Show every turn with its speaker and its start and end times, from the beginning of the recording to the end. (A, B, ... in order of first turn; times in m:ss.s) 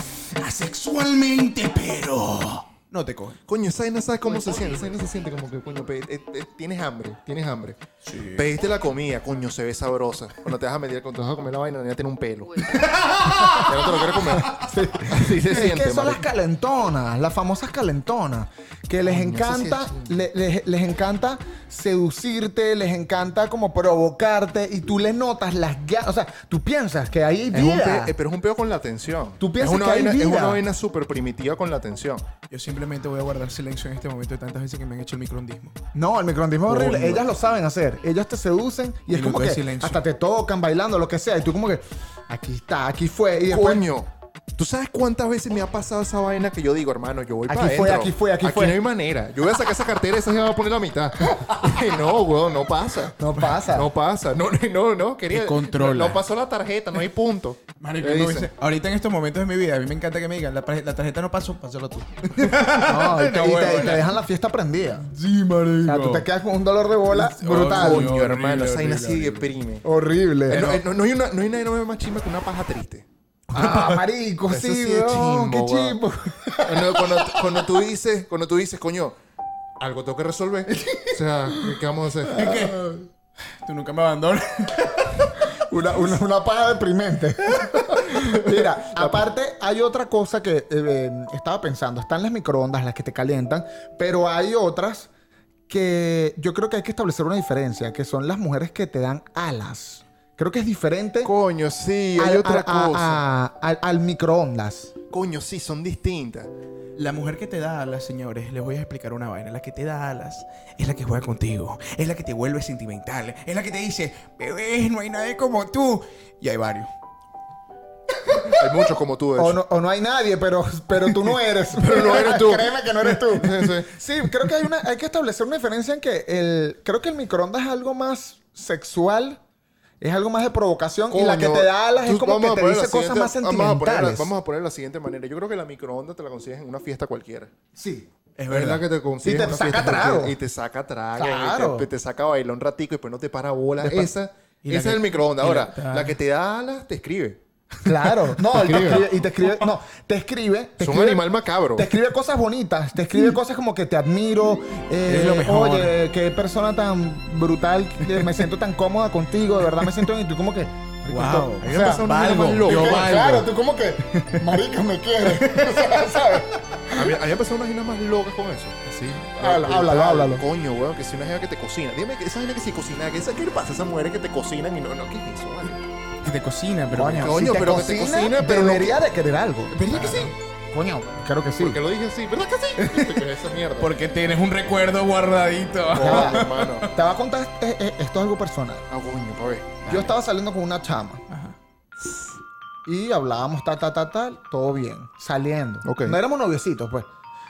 0:00.4-0:03.4 A
0:03.5-0:07.8 B
0:08.0-0:08.5 A
0:08.3-0:12.8 B
0:12.7-0:14.5 A
0:13.5-0:14.5 B
0:14.4-0:28.1 C
0:15.1-0:16.2 B
0:19.0-0:20.1 B
0:27.5-0:32.2 B
0:29.4-0:30.6 C
0:32.5-0:35.8 A
0:35.9-0:43.8 C
0:36.7-0:37.3 A
0:39.1-0:40.0 A
0:43.5-0:53.2 B
0:47.5-0:48.8 C
0:53.2-0:53.9 C
0:53.7-0:58.5 B
0:55.3-0:56.2 A
0:57.8-1:04.1 A
1:02.8-1:05.0 C
1:05.0-1:06.3 A
1:05.8-1:08.1 C
1:07.1-1:09.5 A
1:07.7-1:09.8 B
1:09.8-1:10.7 C
1:10.5-1:13.0 B
1:10.5-1:10.8 A
1:13.5-1:17.7 C
1:13.5-1:13.9 A
1:14.5-1:16.0 B
1:16.6-1:19.1 B
1:19.8-1:22.4 B
1:22.3-1:22.9 A
1:22.4-1:23.0 C
1:23.6-1:25.4 A
1:25.6-1:35.1 C
1:28.1-1:29.2 B
1:35.7-1:41.3 C
1:41.2-1:43.2 B
1:42.2-1:44.9 C
1:45.1-1:46.5 B
1:47.0-1:56.9 A
1:58.5-1:59.6 B
1:59.4-2:09.4 C
2:01.7-2:03.9 B
2:10.0-2:14.3 C
2:11.1-2:17.5 B
2:17.8-2:18.1 C
2:18.4-2:18.8 A
2:18.5-2:27.4 B
2:19.2-2:20.4 C
2:21.1-2:21.9 C
2:23.8-2:24.1 C
2:24.6-2:26.2 A
2:27.8-2:47.1 C
2:28.1-2:29.0 A
2:28.6-2:29.1 B
2:30.8-2:31.9 B
2:35.1-2:36.0 A
2:41.1-2:43.5 A
2:41.6-2:43.1 B
2:45.3-2:46.0 A
2:46.9-2:55.8 B
2:48.8-2:49.3 A
2:49.4-2:50.4 C
2:56.2-2:57.4 A
2:56.9-3:01.8 C
2:57.2-2:59.0 B
2:59.8-3:00.3 B
2:59.8-3:00.3 A
3:01.6-3:03.9 B
3:02.8-3:03.2 A
3:03.8-3:06.8 A
3:05.9-3:06.9 B
3:06.0-3:08.8 C
3:08.9-3:09.8 B
3:09.8-3:10.1 A
3:09.9-3:11.2 C
3:11.3-3:11.6 A
3:12.8-3:17.1 C
3:15.8-3:16.2 B